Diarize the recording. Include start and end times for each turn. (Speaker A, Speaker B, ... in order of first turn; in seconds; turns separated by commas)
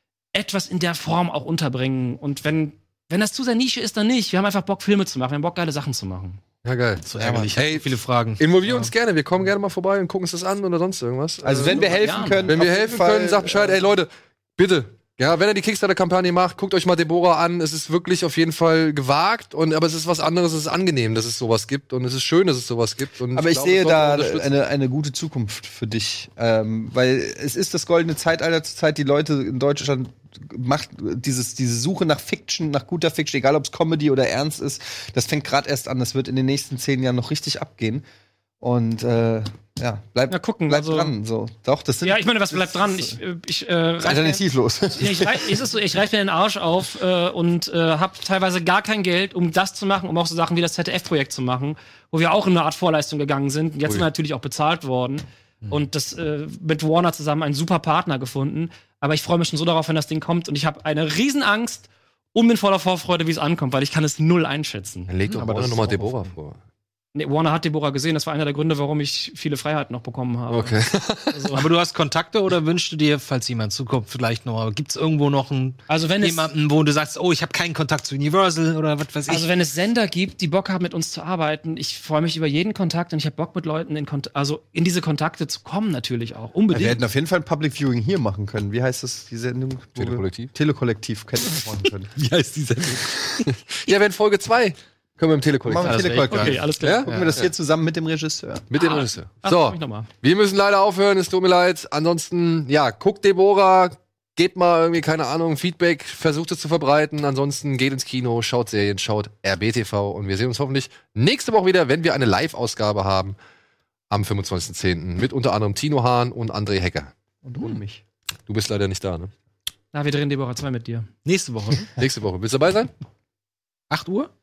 Speaker A: 0.3-6.4, Speaker B: 6.6-7.9, Speaker C: 7.0-8.9, Speaker D: 7.2-7.6, Speaker B: 8.4-11.8, Speaker D: 11.4-13.8, Speaker A: 11.6-12.5, Speaker B: 12.4-24.5, Speaker D: 23.3-38.0, Speaker D: 38.6-43.2, Speaker A: 40.3-41.1, Speaker A: 42.0-65.1, Speaker D: 44.0-45.6, Speaker B: 65.1-66.6, Speaker C: 65.3-66.3, Speaker A: 67.1-70.8, Speaker B: 70.5-71.5, Speaker A: 71.3-71.7, Speaker C: 71.5-79.5, Speaker A: 75.9-76.5, Speaker A: 79.3-87.0, Speaker D: 86.7-92.1, Speaker B: 90.0-90.5, Speaker B: 92.1-96.2, Speaker D: 95.6-98.7, Speaker C: 95.8-97.3, Speaker A: 96.3-97.4, Speaker B: 96.8-97.1, Speaker B: 98.7-113.4, Speaker A: 98.7-100.1, Speaker B: 114.1-117.1, Speaker D: 117.4-118.0, Speaker B: 118.5-119.3, Speaker A: 119.9-121.1, Speaker C: 121.2-121.9, Speaker B: 122.0-122.9, Speaker C: 123.9-124.3